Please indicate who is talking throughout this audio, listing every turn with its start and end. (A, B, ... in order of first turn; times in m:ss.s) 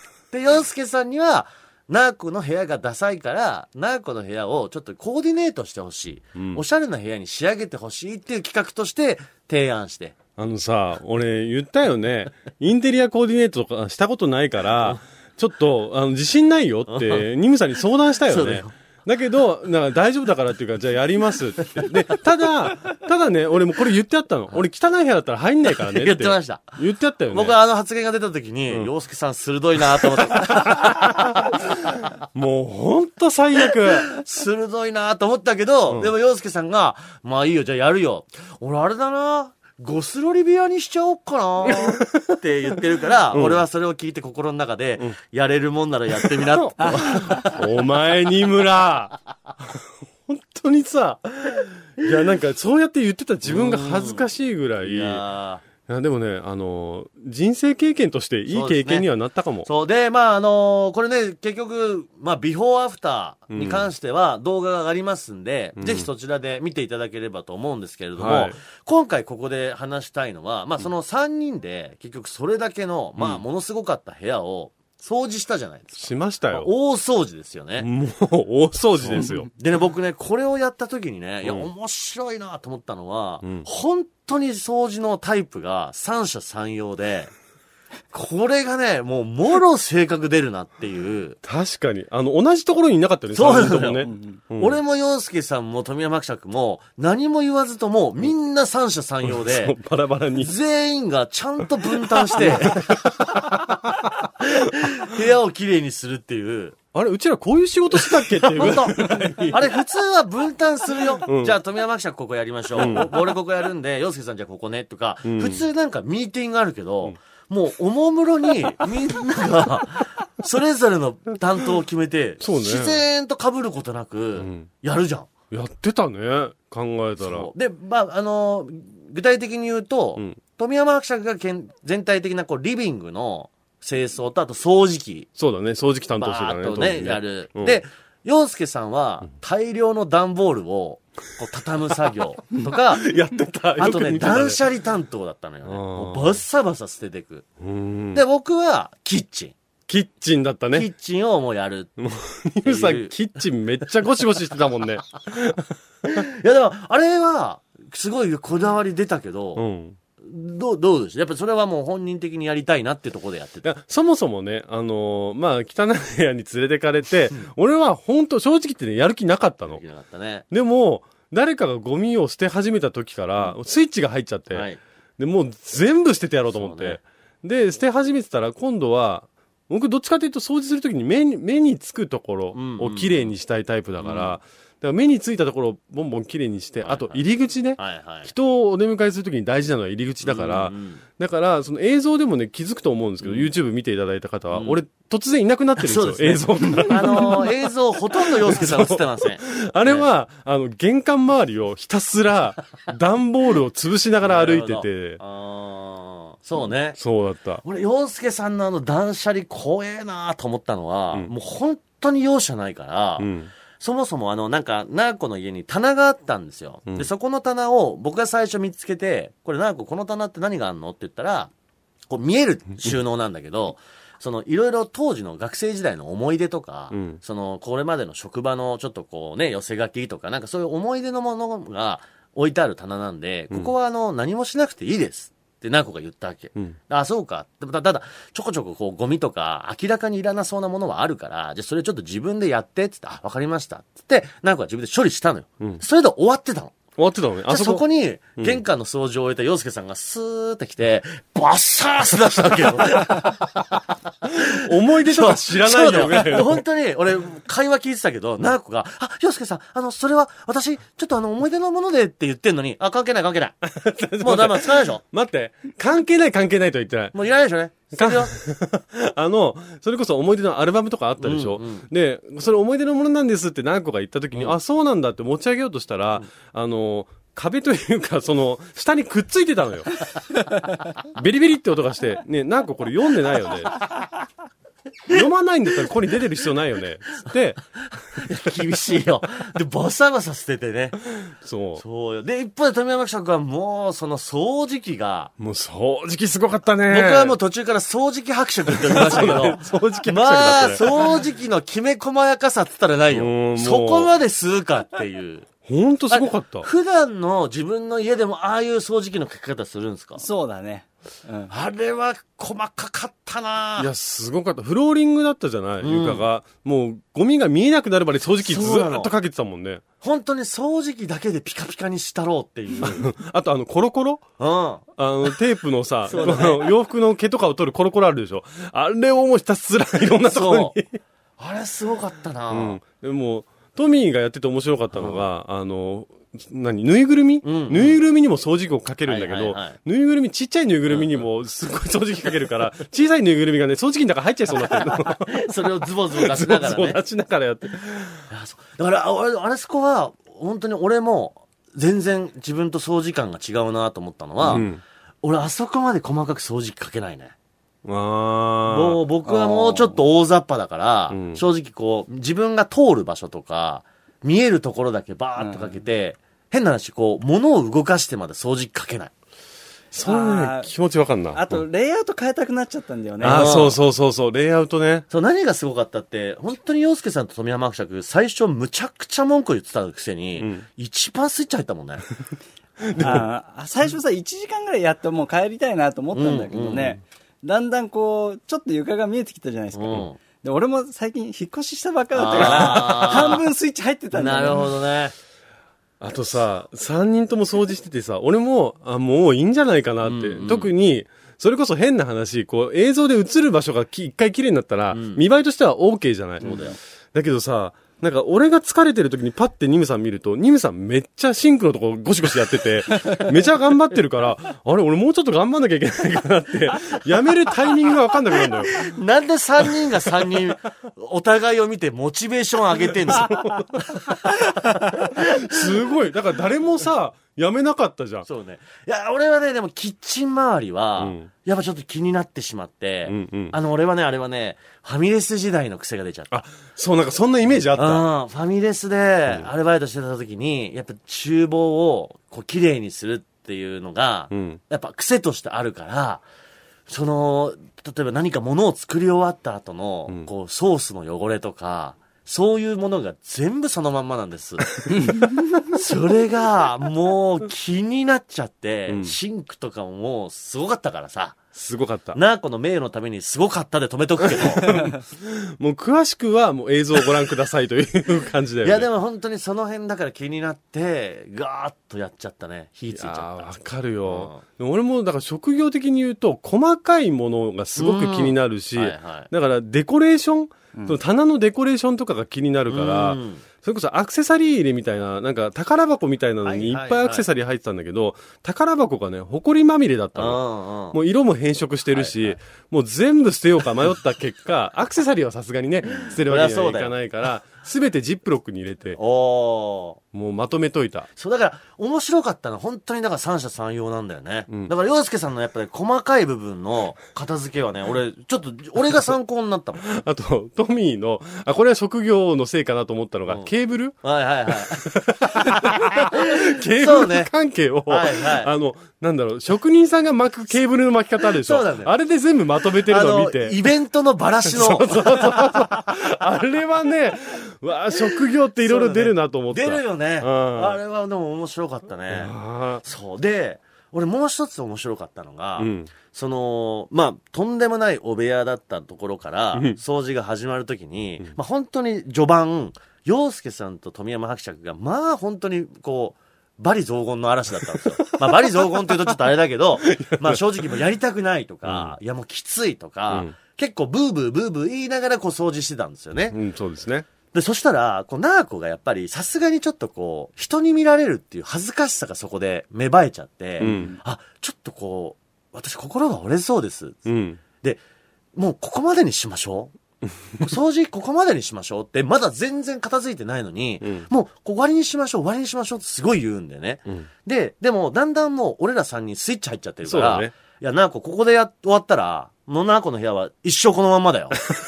0:00.3-0:10.2 A
0:06.4-0:06.6 B
0:10.4-0:27.6 B
0:16.9-0:17.2 A
0:18.3-0:18.7 A
0:25.9-0:26.8 A
0:27.3-0:31.6 A
0:30.2-0:34.1 B
0:34.1-0:47.6 A
0:41.7-0:42.2 B
0:43.3-0:43.6 B
0:46.2-0:49.2 B
0:50.3-0:55.2 B
0:53.4-0:54.2 A
0:54.8-0:55.6 A
0:55.8-0:59.7 B
0:58.5-0:59.1 A
0:59.6-1:17.9 A
1:03.5-1:03.9 B
1:05.8-1:06.1 B
1:08.2-1:08.6 B
1:16.0-1:16.7 B
1:17.8-1:19.5 B
1:19.0-1:27.3 A
1:28.1-1:31.4 A
1:31.4-1:34.8 B
1:33.3-1:39.8 A
1:34.1-1:34.4 C
1:39.3-1:40.5 B
1:40.4-1:43.7 A
1:42.0-1:43.7 B
1:44.4-1:46.8 A
1:46.9-1:49.8 B
1:48.0-2:05.3 A
1:51.2-1:51.6 B
1:52.8-1:53.2 B
1:55.2-1:55.6 B
2:02.4-2:03.0 B
2:04.4-2:04.7 B
2:05.5-2:07.5 B
2:07.2-2:15.3 A
2:15.4-2:17.8 B
2:16.2-2:23.0 A
2:22.9-2:24.6 B
2:23.8-2:27.5 A
2:25.7-2:26.4 B
2:27.6-2:28.2 B
2:28.1-2:29.6 A
2:29.9-2:30.9 B
2:30.7-2:31.9 A
2:32.0-2:35.7 B
2:32.6-2:33.1 A
2:36.0-2:39.6 A
2:39.6-2:40.0 B
2:40.2-2:43.7 A
2:43.6-2:49.8 B
2:49.7-2:50.4 A
2:50.5-2:54.7 B
2:54.5-2:54.8 A
2:55.2-3:17.6 B
2:56.5-2:57.0 A
3:02.5-3:03.3 A
3:04.0-3:04.4 A
3:06.8-3:07.2 A
3:07.8-3:08.3 A
3:10.2-3:11.0 A
3:13.2-3:13.5 A
3:14.5-3:14.8 A
3:15.8-3:20.1 A
3:18.1-3:25.2 B
3:24.2-3:27.0 A
3:27.0-3:27.6 B
3:27.6-3:41.5 A
3:33.2-3:33.5 B
3:42.1-4:06.8 A
3:46.9-3:47.2 B
4:07.0-4:07.9 B
4:07.5-4:13.8 A
4:14.4-4:23.6 A
4:14.5-4:16.6 B
4:23.6-4:27.2 B
4:24.2-4:25.0 A
4:27.1-4:28.3 A
4:27.9-4:40.0 B
4:31.2-4:31.9 A
4:41.1-4:43.9 B
4:45.1-4:47.6 B
4:48.1-4:51.0 A
4:51.3-4:51.8 B
4:51.8-4:55.3 A
4:55.4-4:57.4 B
4:56.9-5:05.5 A
4:58.7-5:01.0 B
5:03.1-5:04.1 B
5:05.7-5:06.7 B
5:06.1-5:10.2 A
5:10.2-5:11.5 C
5:11.5-5:13.9 A
5:13.8-5:19.8 B
5:15.8-5:16.2 A
5:18.4-5:19.1 A
5:20.0-5:23.1 A
5:22.8-5:24.3 B
5:24.4-5:24.8 A
5:25.0-5:31.0 B
5:26.1-5:26.7 A
5:30.3-5:30.8 A
5:31.4-5:32.8 A
5:32.5-5:45.5 B
5:34.9-5:35.2 A
5:37.4-5:38.0 A
5:39.1-5:39.8 A
5:40.9-5:41.2 A
5:44.7-5:47.0 A
5:46.2-5:48.2 B
5:48.3-5:54.7 A
5:54.4-5:54.8 B
5:55.2-5:57.3 A
5:57.8-5:59.0 B
5:58.6-6:09.1 A
5:59.3-6:00.0 C
6:01.1-6:01.4 B
6:05.4-6:05.7 C
6:09.9-6:11.6 B
6:10.0-6:10.7 C
6:11.3-6:13.6 C
6:13.2-6:15.1 B
6:13.2-6:13.8 A
6:15.1-6:22.0 A
6:20.4-6:20.6 B
6:22.8-6:23.3 B
6:23.0-6:34.7 C
6:26.1-6:27.0 A
6:29.7-6:30.2 A
6:32.2-6:33.5 A
6:34.1-6:35.2 A
6:36.0-6:46.6 B
6:40.0-6:40.7 A
6:44.9-6:45.2 A
6:46.4-6:46.8 A
6:47.1-6:58.9 B
6:58.7-7:05.7 A
7:03.1-7:04.1 B
7:05.1-7:08.3 B
7:08.2-7:16.4 A
7:11.0-7:11.3 B
7:13.1-7:13.6 B
7:16.3-7:18.0 B
7:17.8-7:26.2 A
7:24.3-7:24.6 B
7:26.9-7:41.4 A
7:38.9-7:39.2 B
7:41.6-7:42.2 B
7:42.1-7:44.8 A
7:44.3-7:48.9 B
7:48.6-7:53.5 A
7:52.9-8:10.4 B
7:54.1-7:54.4 A
7:57.8-7:59.3 A
8:02.7-8:03.4 A
8:06.4-8:07.3 A
8:10.2-8:11.0 A
8:10.9-8:19.0 B
8:11.9-8:12.4 A
8:16.0-8:16.9 A
8:19.0-8:20.0 A
8:20.1-8:21.1 B
8:21.2-8:29.8 A
8:29.8-8:34.0 B
8:34.0-8:34.9 A
8:34.8-8:43.6 B
8:35.5-8:37.3 A
8:37.9-8:38.5 A
8:41.4-8:41.9 A
8:42.9-8:45.6 A
8:44.5-8:50.8 B
8:48.6-9:16.4 A
8:52.1-8:52.8 B
8:55.6-8:55.9 B
9:08.2-9:09.1 B
9:09.9-9:10.4 B
9:11.6-9:12.0 B
9:16.3-9:17.1 B
9:17.3-9:27.1 A
9:23.6-9:23.9 B
9:23.6-9:24.0 C
9:27.1-9:27.4 B
9:28.4-9:29.7 A
9:30.4-9:44.5 A
9:39.8-9:40.3 B